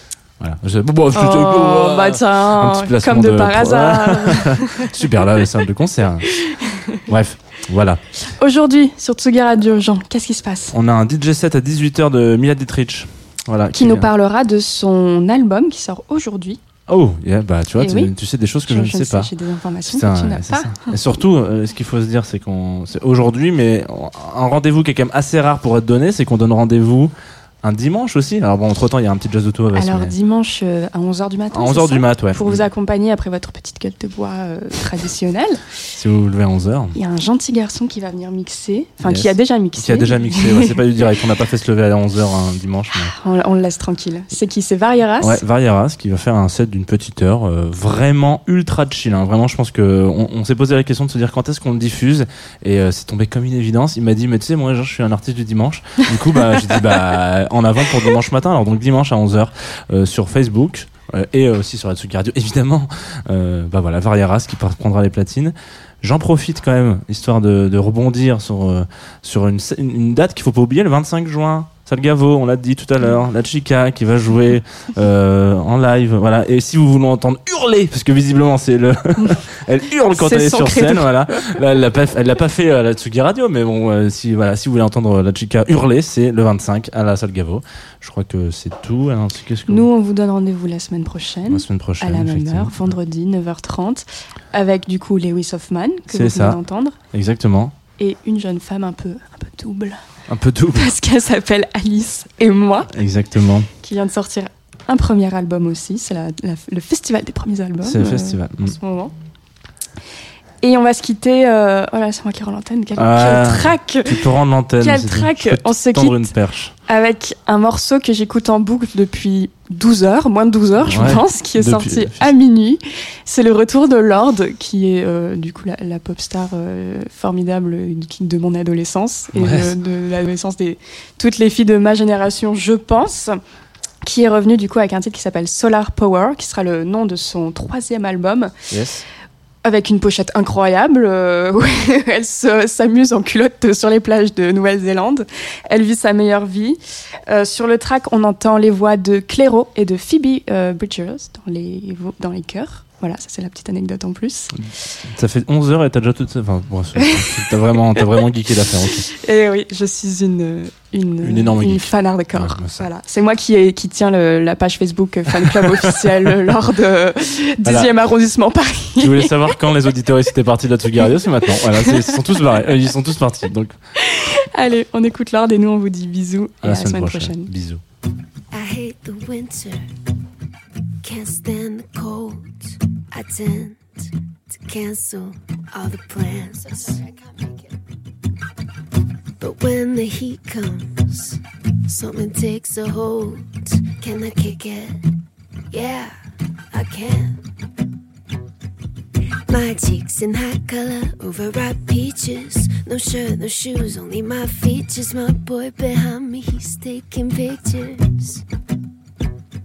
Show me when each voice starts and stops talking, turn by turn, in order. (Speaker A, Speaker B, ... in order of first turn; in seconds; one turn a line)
Speaker A: 0.4-6.3
Speaker B: 1.1-5.0
Speaker B: 6.3-7.0
Speaker A: 7.0-8.0
Speaker B: 8.3-10.8
Speaker A: 10.7-14.1
Speaker B: 13.7-16.6
Speaker A: 16.9-19.3
Speaker B: 17.8-18.1
Speaker B: 18.6-20.9
Speaker A: 19.9-30.1
Speaker B: 29.7-35.6
Speaker A: 31.5-32.6
Speaker A: 35.9-37.0
Speaker B: 36.9-40.7
Speaker A: 39.0-43.1
Speaker B: 42.9-45.4
Speaker A: 45.2-89.9
Speaker B: 80.1-81.6
Speaker B: 89.7-97.0
Speaker A: 91.5-92.9
Speaker A: 96.1-96.6
Speaker A: 97.1-97.7
Speaker B: 98.0-100.0
Speaker A: 100.3-100.9
Speaker B: 100.7-102.9
Speaker A: 102.9-103.7
Speaker B: 103.8-109.1
Speaker A: 107.8-108.8
Speaker B: 110.6-116.3
Speaker A: 113.0-116.7
Speaker B: 116.9-133.4
Speaker A: 120.8-122.3
Speaker A: 129.3-129.7
Speaker B: 134.0-138.5
Speaker A: 138.7-139.0
Speaker B: 139.6-154.6
Speaker A: 154.6-159.1
Speaker B: 157.0-157.4
Speaker B: 159.1-169.4
Speaker A: 161.2-162.8
Speaker A: 165.4-166.0
Speaker A: 167.6-167.9
Speaker A: 169.0-173.7
Speaker B: 171.7-172.4
Speaker B: 174.0-177.5
Speaker A: 176.6-177.8
Speaker C: 178.5-179.8
Speaker C: 181.0-187.6
Speaker C: 189.4-195.0
Speaker C: 195.7-196.2
Speaker C: 196.7-197.4
Speaker C: 199.5-208.4